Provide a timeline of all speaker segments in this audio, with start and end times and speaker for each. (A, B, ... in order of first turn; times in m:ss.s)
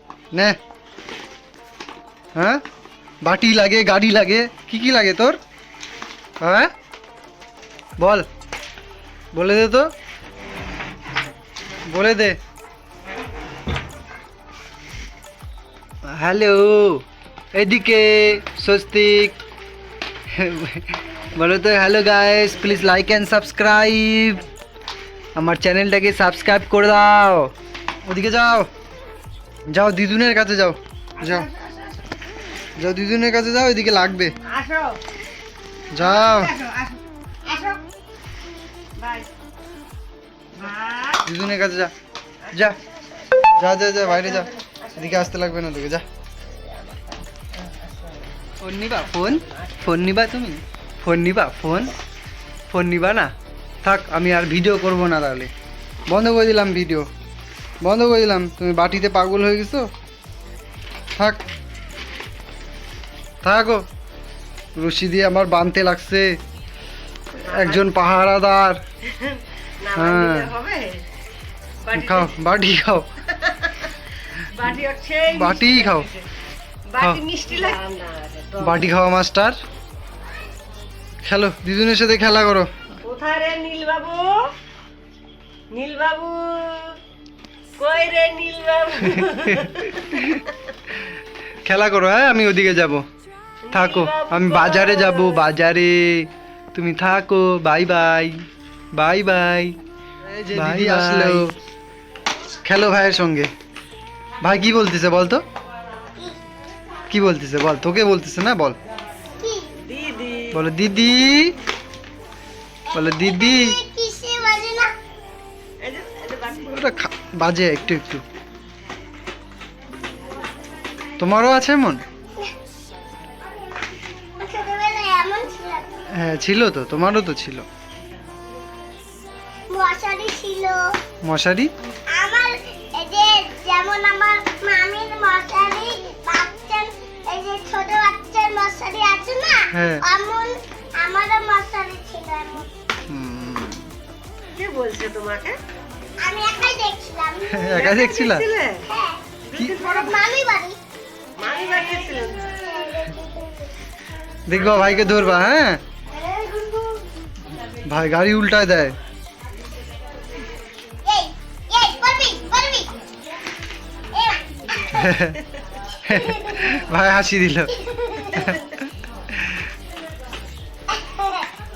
0:00.3-0:00.6 A
0:02.4-0:02.6 A
0:03.2-0:05.4 A
0:06.4-0:06.7 A
0:08.0-0:08.3 A
0:09.3-0:09.9 A
0:11.9-0:12.4 A
0:16.1-0:19.4 A
0:20.3-0:24.4 A
0:25.4-0:27.5 A
0:28.0-0:28.7 A
0:29.7-0:31.5 A
0:31.2-0:32.1 B
0:32.8-0:34.3 A
0:34.4-0:35.0 B
0:35.9-0:36.6 A
0:36.0-0:37.8 B
0:39.0-0:39.3 B
0:40.6-0:41.2 B
0:41.2-0:41.9 A
0:42.4-0:45.6 B
0:42.5-0:42.8 A
0:43.6-0:46.0 A
0:46.4-0:49.9 B
0:48.6-0:51.9 A
0:52.7-0:53.3 A
0:53.8-0:55.5 A
0:56.1-0:57.1 A
0:57.8-0:59.9 A
1:01.2-1:01.4 A
1:03.4-1:03.8 A
1:04.8-1:06.4 A
1:07.4-1:08.8 A
1:07.4-1:08.0 B
1:09.0-1:11.0 B
1:09.9-1:10.5 A
1:11.8-1:12.3 B
1:11.9-1:13.1 A
1:13.3-1:16.3 B
1:15.3-1:16.1 A
1:16.9-1:18.9 B
1:18.6-1:19.6 A
1:21.2-1:22.7 A
1:23.0-1:24.5 B
1:25.7-1:27.0 B
1:27.8-1:30.5 B
1:29.6-1:30.4 A
1:31.6-1:33.0 A
1:33.7-1:35.5 B
1:33.7-1:38.4 A
1:38.9-1:39.8 A
1:40.2-1:41.4 B
1:40.5-1:41.5 A
1:42.6-1:43.5 A
1:44.4-1:45.4 A
1:47.1-1:48.8 A
1:49.4-1:49.8 C
1:49.8-1:50.6 B
1:50.5-1:51.5 A
1:52.9-1:54.9 C
1:52.9-1:53.8 A
1:55.8-1:56.9 B
1:56.7-1:58.2 A
2:01.2-2:02.0 A
2:04.4-2:06.1 C
2:06.1-2:07.6 A
2:09.7-2:11.0 C
2:11.2-2:11.7 A
2:12.1-2:22.7 C
2:19.7-2:20.0 A
2:23.1-2:23.9 A
2:24.5-2:25.6 B
2:26.2-2:27.9 C
2:27.5-2:28.4 A
2:27.7-2:28.9 B
2:28.8-2:29.2 C
2:29.4-2:30.3 B
2:29.8-2:30.8 C
2:31.4-2:32.7 B
2:32.3-2:33.7 C
2:34.5-2:35.8 A
2:37.8-2:39.0 A
2:41.0-2:42.9 C
2:44.1-2:45.2 C
2:44.9-2:45.4 A
2:46.0-2:46.7 C
2:46.1-2:47.8 A
2:47.8-2:48.6 C
2:48.3-2:48.6 A
2:50.9-2:51.5 C